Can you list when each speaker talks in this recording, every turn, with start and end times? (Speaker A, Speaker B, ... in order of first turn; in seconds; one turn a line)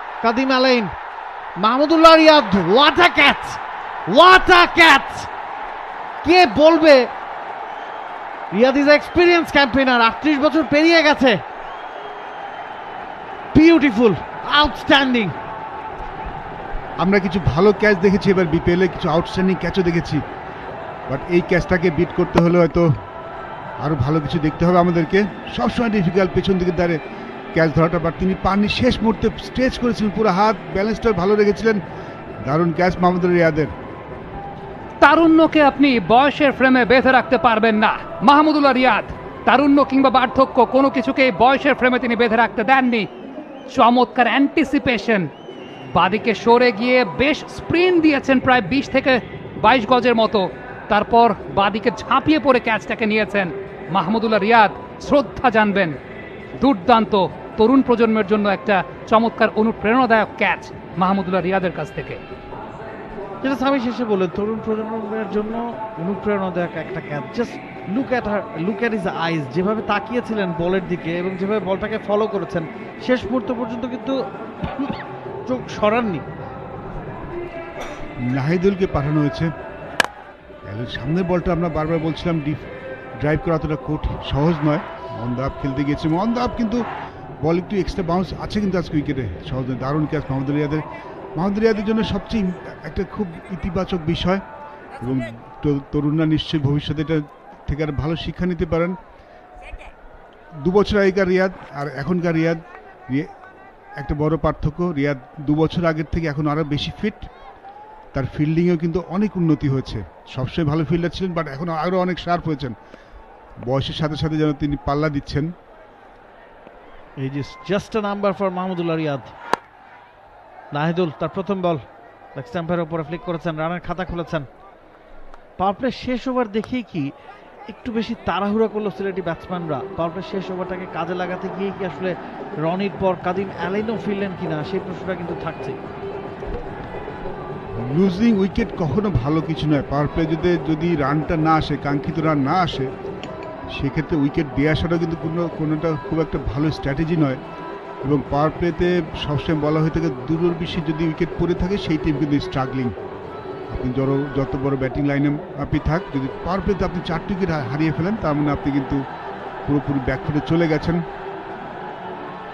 Speaker A: 0.2-0.9
Speaker A: 1.6-5.3
Speaker A: 6.2-7.1
Speaker A: 8.5-11.4
Speaker A: 13.5-15.3
Speaker B: 17.0-20.2
Speaker B: 21.1-22.9
Speaker B: 23.8-27.0
Speaker B: 27.5-31.8
Speaker B: 32.5-33.7
Speaker C: 35.0-43.1
Speaker C: 43.7-45.3
Speaker C: 45.9-56.0
Speaker C: 56.6-62.2
Speaker A: 63.4-76.2
Speaker B: 78.2-79.5
Speaker B: 80.7-82.7
Speaker B: 83.2-86.8
Speaker B: 87.4-90.8
Speaker B: 91.4-94.4
Speaker B: 95.0-98.9
Speaker B: 100.6-103.3
Speaker B: 104.0-107.3
Speaker B: 108.1-112.7
Speaker B: 113.7-115.5
Speaker A: 117.2-119.3
Speaker A: 120.7-121.8
Speaker A: 122.3-124.5
Speaker A: 125.6-127.1
Speaker A: 127.7-135.8
Speaker B: 137.8-142.9
Speaker B: 143.7-147.4
Speaker B: 148.0-152.9
Speaker B: 153.7-159.0
Speaker B: 159.7-161.0